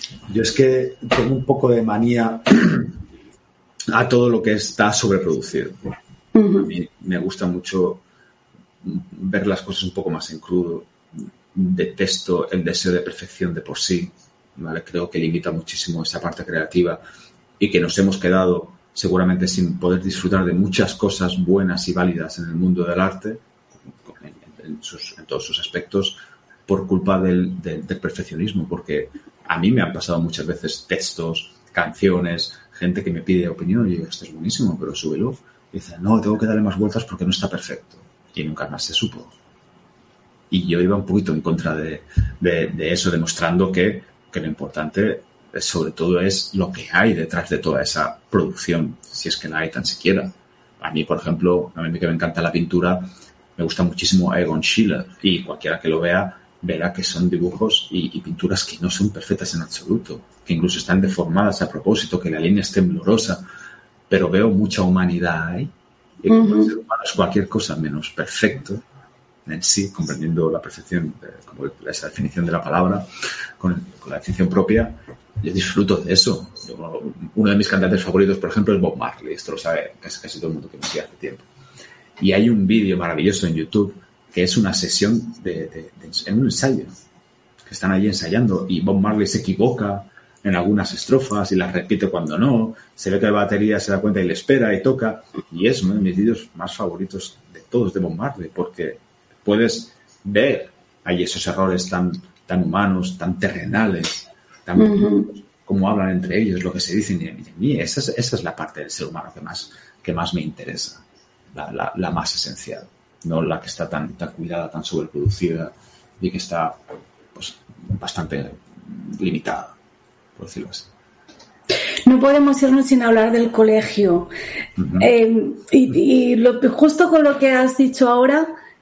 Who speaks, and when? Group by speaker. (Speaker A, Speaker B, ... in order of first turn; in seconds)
Speaker A: 0.3-3.0, 3.9-5.9, 6.6-8.0, 8.8-10.9, 11.5-17.0, 17.6-23.4, 24.1-39.3, 40.5-63.4, 64.1-68.8, 69.5-73.0, 73.6-81.5, 82.2-87.0, 87.7-111.0, 111.5-116.8, 117.3-119.8, 120.4-120.9, 124.8-125.1
Speaker B: 6.3-6.7, 66.3-66.7, 104.8-105.3, 122.1-124.3, 125.0-128.5